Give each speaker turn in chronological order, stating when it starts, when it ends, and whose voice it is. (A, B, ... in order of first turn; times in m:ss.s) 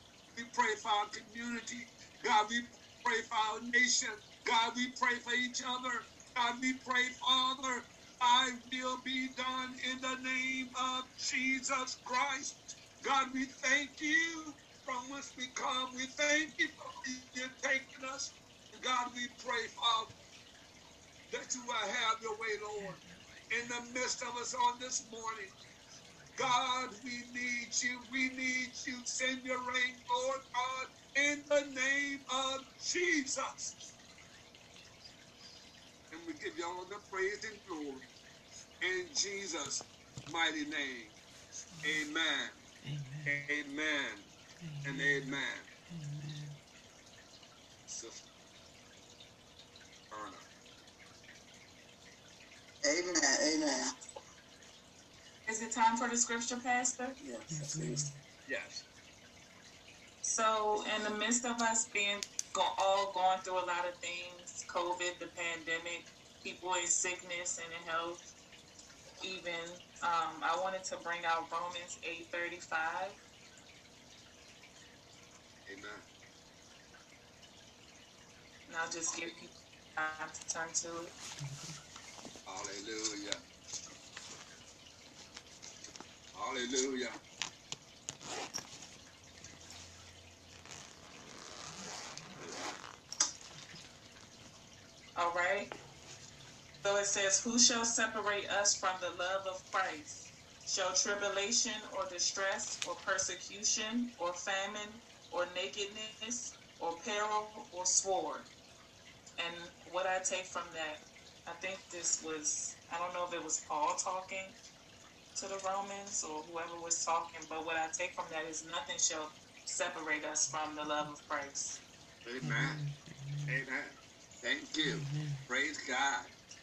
0:00.3-0:20.1 A
0:21.3-0:25.5 A
0:26.3-0:33.9 A
0:36.1-0:38.1 A
0:38.8-0:42.6 A
0:42.8-0:43.4 B
0:43.2-0:44.3 A
0:44.6-0:46.6 B
0:44.8-0:45.7 A
0:47.9-0:48.3 A
0:50.1-0:50.5 A
0:52.8-0:53.9 C
0:55.4-0:57.2 D
0:57.2-0:58.1 C
0:57.5-0:58.2 B
0:58.4-0:58.8 A
1:00.2-1:08.2 D
1:09.2-1:13.2 D
1:15.6-1:16.0 A
1:18.7-1:21.1 D
1:21.4-1:21.7 B
1:22.4-1:23.4 A
1:26.3-1:27.2 A
1:35.2-1:35.7 D
1:36.8-1:48.5 D
1:49.4-1:54.6 D
1:55.3-2:01.8 D
2:02.2-2:02.8 A
2:02.4-2:03.6 B
2:03.5-2:06.3 A
2:04.8-2:05.4 B